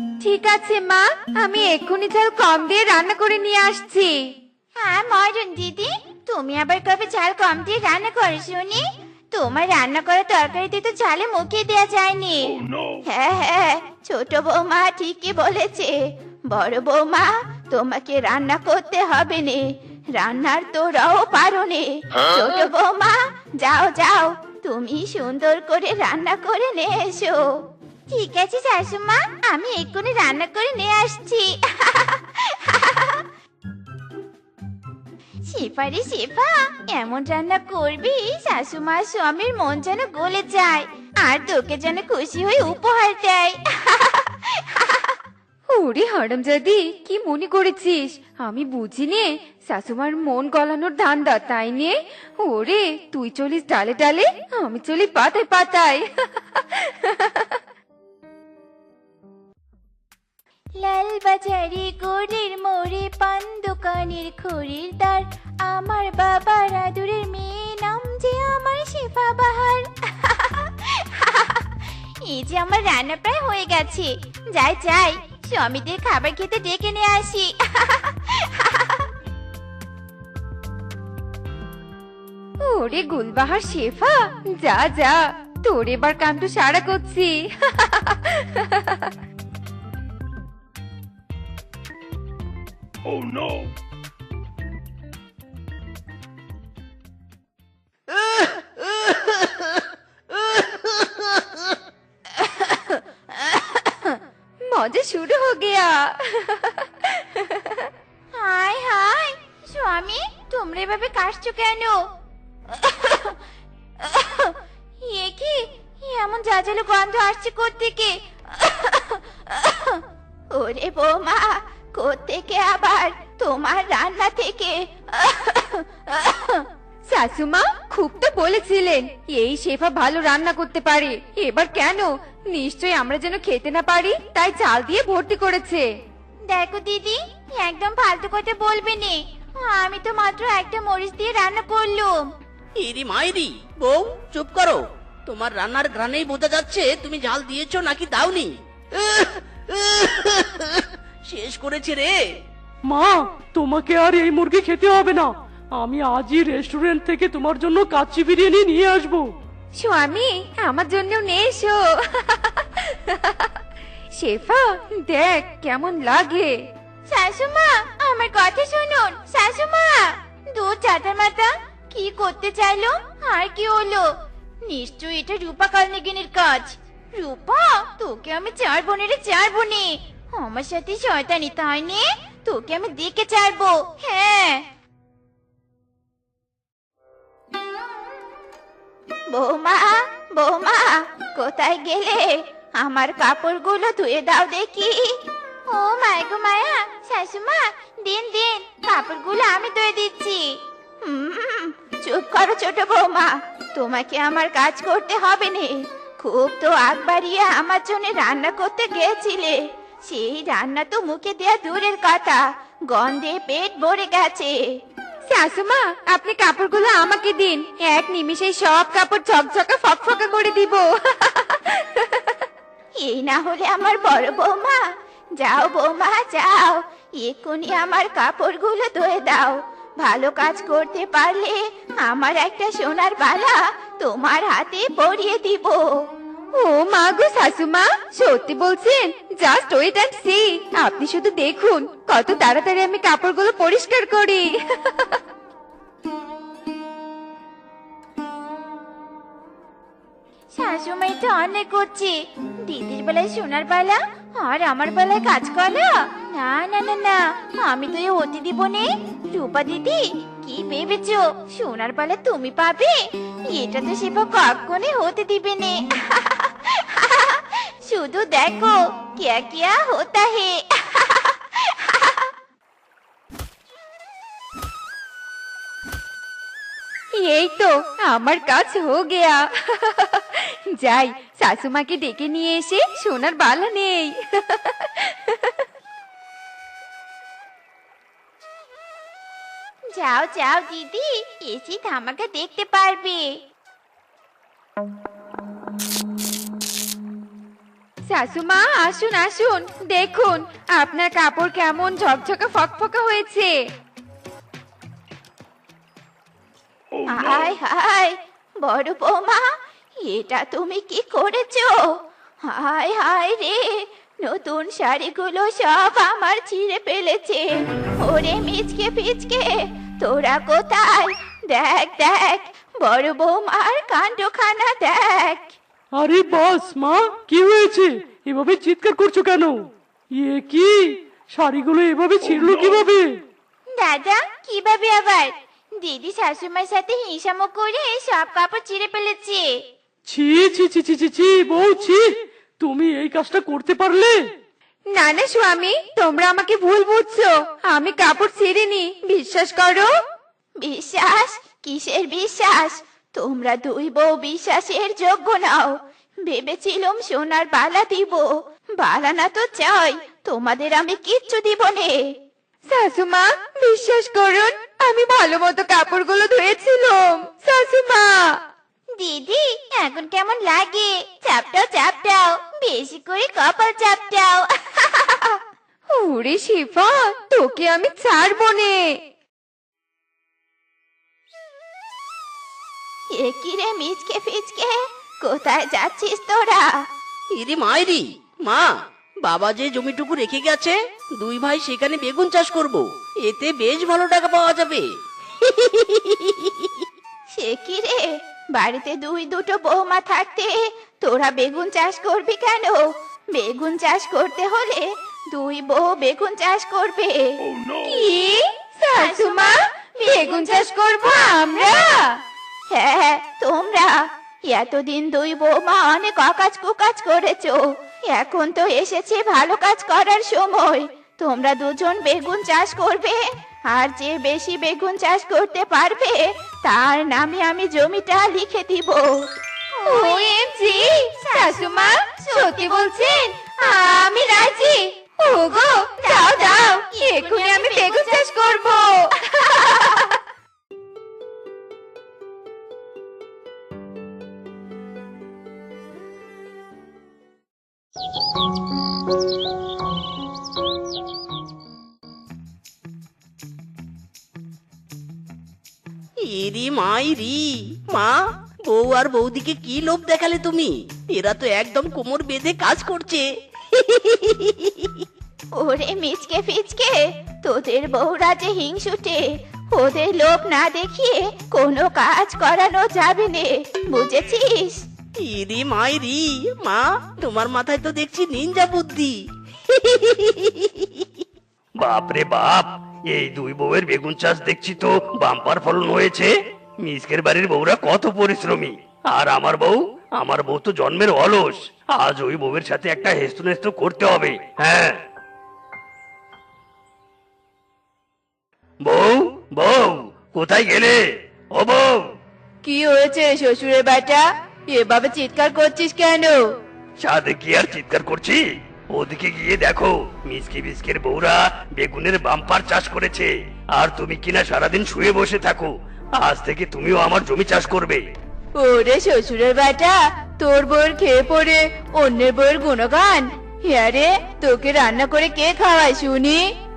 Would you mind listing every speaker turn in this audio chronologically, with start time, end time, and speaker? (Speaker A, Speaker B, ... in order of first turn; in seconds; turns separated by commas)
Speaker A: 0.2-4.2, Speaker B: 4.8-27.6, Speaker B: 28.1-33.3, Speaker B: 35.5-45.2, Speaker A: 45.7-57.5, Speaker B: 60.8-71.7, Speaker B: 72.2-79.1, Speaker A: 82.6-89.1, Speaker B: 102.3-104.2, Speaker A: 104.7-107.7, Speaker B: 108.3-112.0, Speaker B: 112.7-113.4, Speaker B: 114.0-126.7, Speaker A: 127.1-135.9, Speaker B: 136.5-142.3, Speaker C: 142.8-152.2, Speaker D: 152.9-159.3, Speaker A: 159.8-163.4, Speaker A: 164.2-166.6, Speaker B: 167.1-174.1, Speaker B: 174.7-184.7, Speaker B: 189.3-214.8, Speaker A: 215.3-222.2, Speaker B: 223.0-236.0, Speaker A: 236.6-245.2, Speaker B: 250.6-272.3, Speaker A: 277.2-285.5, Speaker B: 289.9-293.4, Speaker A: 298.1-303.5, Speaker B: 307.1-325.6, Speaker D: 326.0-329.6, Speaker D: 330.1-333.1, Speaker B: 333.8-339.6, Speaker D: 340.1-342.0, Speaker D: 342.6-344.2, Speaker A: 344.9-349.9, Speaker B: 350.6-362.1, Speaker A: 362.7-368.2, Speaker B: 369.0-375.4, Speaker A: 375.9-378.9, Speaker B: 383.1-386.8, Speaker C: 387.4-388.7, Speaker C: 389.2-394.9, Speaker C: 395.4-396.9, Speaker B: 397.4-407.4, Speaker A: 407.8-412.1, Speaker B: 408.9-411.6, Speaker B: 412.7-429.3, Speaker B: 429.9-430.3, Speaker A: 429.9-440.0, Speaker B: 431.3-433.2, Speaker B: 436.0-438.3, Speaker C: 456.2-458.1, Speaker C: 458.7-465.1, Speaker B: 465.6-474.9, Speaker C: 475.2-481.1, Speaker E: 481.8-495.0, Speaker E: 498.8-501.0, Speaker E: 501.5-502.1, Speaker F: 502.6-506.4, Speaker E: 507.0-518.0, Speaker F: 518.6-526.5